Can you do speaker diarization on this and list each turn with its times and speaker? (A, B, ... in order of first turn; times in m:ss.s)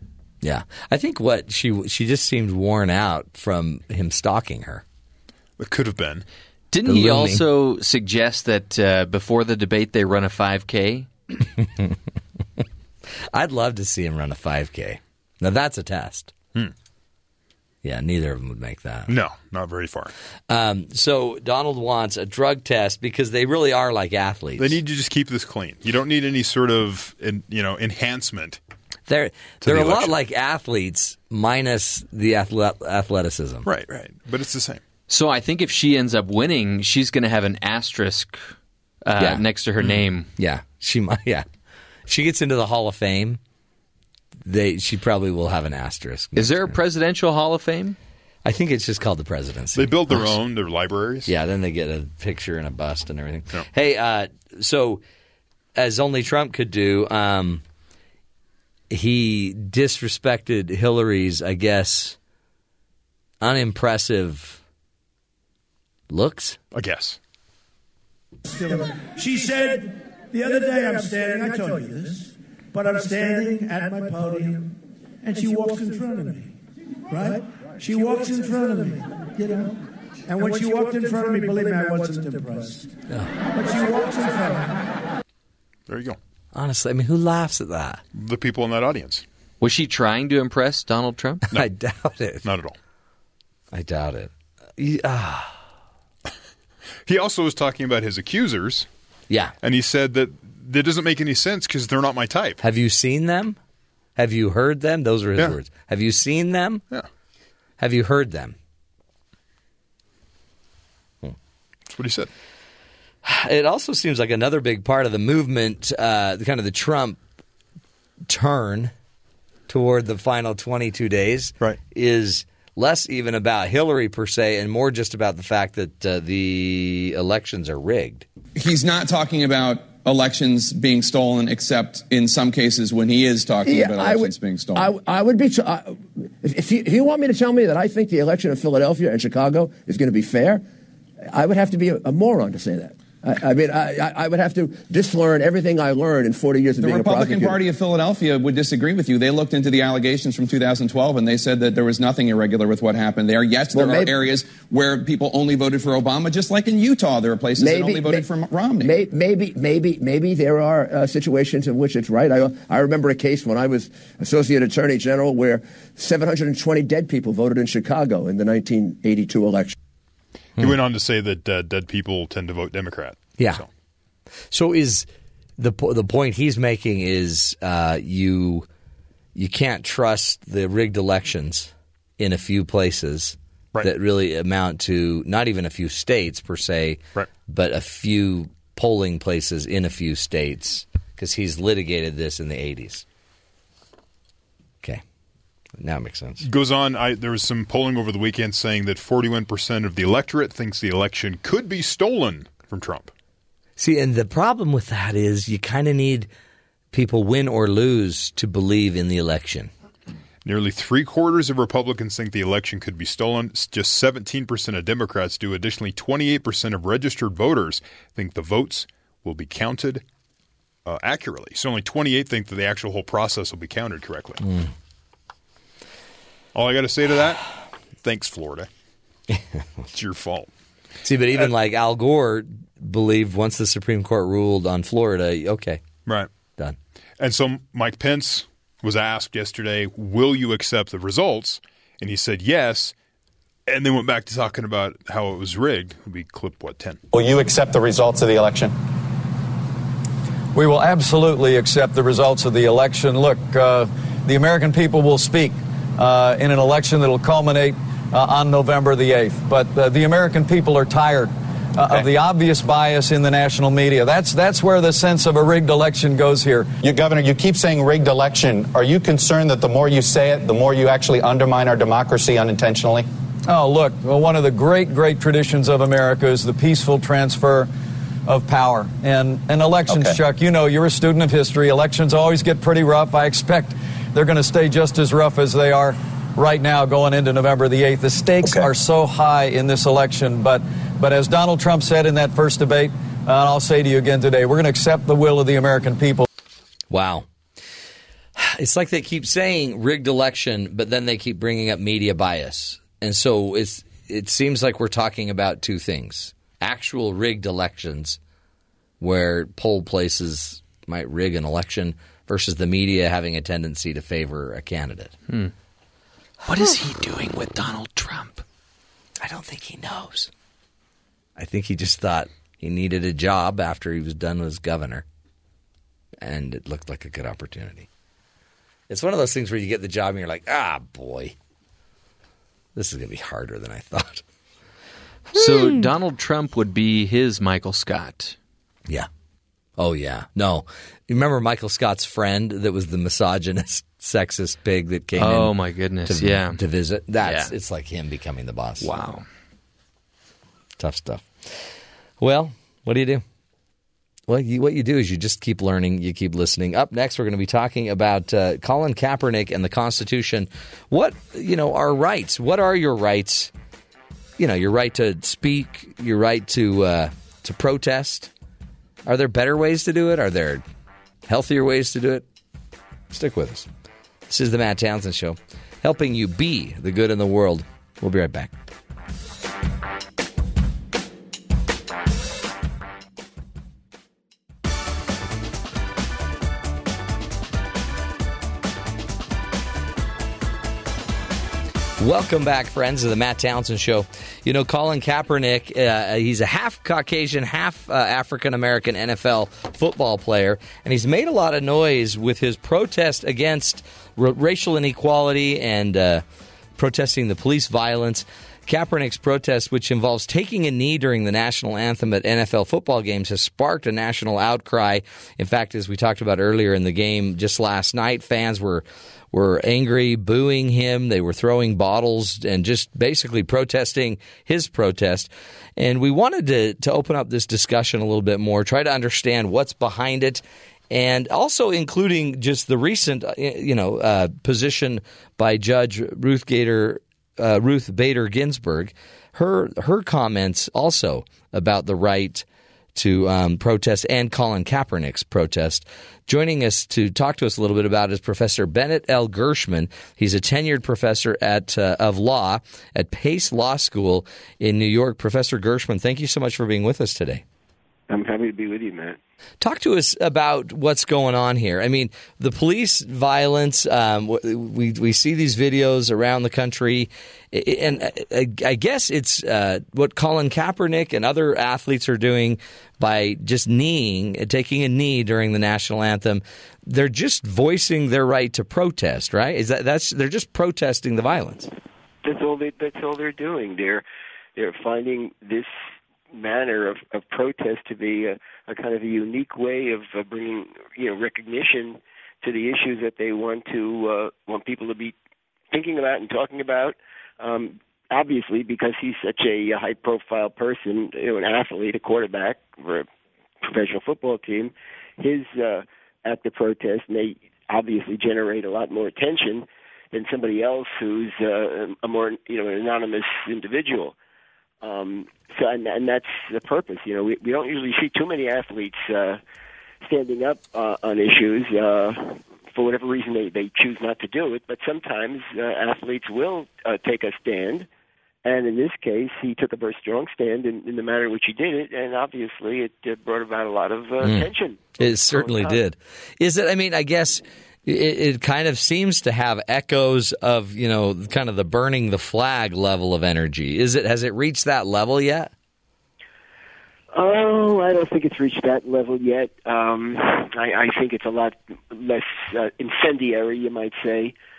0:00.4-0:04.8 A
0:05.6-0:06.2 B
0:06.7-0:11.1 C
0:06.8-0:07.4 A
0:11.6-0:12.0 A
0:13.3-0:16.3 A
0:17.8-0:19.1 A
0:19.1-0:20.1 B
0:20.5-0:24.8 A
0:24.6-0:28.6 B
0:29.1-0:33.7 A
0:29.6-0:30.1 B
0:33.6-0:34.8 B
0:35.1-0:38.5 C
0:39.0-0:40.3 C
0:39.2-0:39.4 A
0:40.4-0:41.5 A
0:42.1-0:43.4 A
0:44.4-0:46.7 A
0:46.4-0:48.0 C
0:48.4-0:50.3 A
0:49.7-0:51.3 B
0:51.2-0:55.0 A
0:55.8-0:57.6 A
0:58.9-1:02.2 A
1:03.4-1:04.6 A
1:06.1-1:06.6 A
1:06.7-1:07.2 B
1:08.5-1:16.5 D
1:17.1-1:22.9 D
1:23.5-1:24.8 D
1:25.9-1:26.2 B
1:26.5-1:28.0 A
1:28.1-1:29.2 B
1:29.6-1:31.4 C
1:31.5-1:32.4 A
1:32.4-1:32.8 B
1:33.7-1:35.6 A
1:37.0-1:38.9 B
1:39.6-1:42.6 B
1:42.6-1:43.6 A
1:44.2-1:46.8 A
1:47.8-1:48.6 A
1:51.9-1:52.3 B
1:53.2-1:57.2 A
1:58.3-1:58.9 A
1:59.7-2:08.2 A
2:08.6-2:14.9 E
2:13.6-2:20.6 F
2:21.3-2:27.6 F
2:26.8-2:38.9 E
2:33.7-2:34.1 F
2:37.6-2:38.3 F
2:38.8-2:49.7 F
2:50.6-2:53.7 B
2:53.4-2:53.6 A
2:54.5-2:58.7 A
2:59.3-3:13.0 A
3:15.8-3:16.4 A
3:16.4-3:23.1 B
3:23.8-3:26.3 A
3:26.9-3:29.7 A
3:30.4-3:40.0 B
3:40.8-3:44.4 B
3:44.4-3:44.7 A
3:46.5-3:47.4 B
3:48.0-3:48.7 B
3:49.3-3:49.6 A
3:49.9-3:50.5 B
3:51.0-3:55.8 A
3:57.2-4:02.9 B
4:03.7-4:07.0 B
4:07.1-4:08.7 G
4:10.5-4:26.7 H
4:26.8-4:33.0 G
4:33.5-4:37.7 H
4:38.3-4:56.2 H
4:39.9-4:40.2 G
4:48.4-4:48.7 G
4:56.9-4:57.3 A
4:58.4-5:08.2 A
5:09.0-5:15.1 A
5:16.4-5:18.4 C
5:19.2-5:20.3 A
5:21.4-5:25.0 A
5:26.2-5:27.9 A
5:28.9-5:31.3 A
5:32.7-5:34.2 A
5:35.3-5:35.8 A
5:35.3-5:38.4 C
5:39.8-5:45.5 A
5:45.2-5:46.6 C
5:46.0-5:48.9 A
5:47.2-5:47.5 C
5:48.8-5:49.2 C
5:50.8-5:51.6 A
5:52.2-5:53.2 A
5:54.3-6:03.5 A
6:04.4-6:08.3 A
6:09.0-6:10.6 A
6:11.3-6:12.2 A
6:13.1-6:13.7 A
6:14.3-6:18.5 A
6:32.0-6:46.2 A
6:46.8-7:37.4 A
7:38.1-7:39.2 I
7:39.6-8:01.7 A
8:02.2-8:04.0 I
8:04.6-8:05.7 I
8:06.3-8:15.1 I
8:15.7-8:23.0 I
8:23.6-8:34.1 I
8:34.8-8:39.4 I
8:40.0-8:47.9 I
8:48.4-8:55.8 I
8:54.2-9:05.5 A
9:07.1-9:14.3 I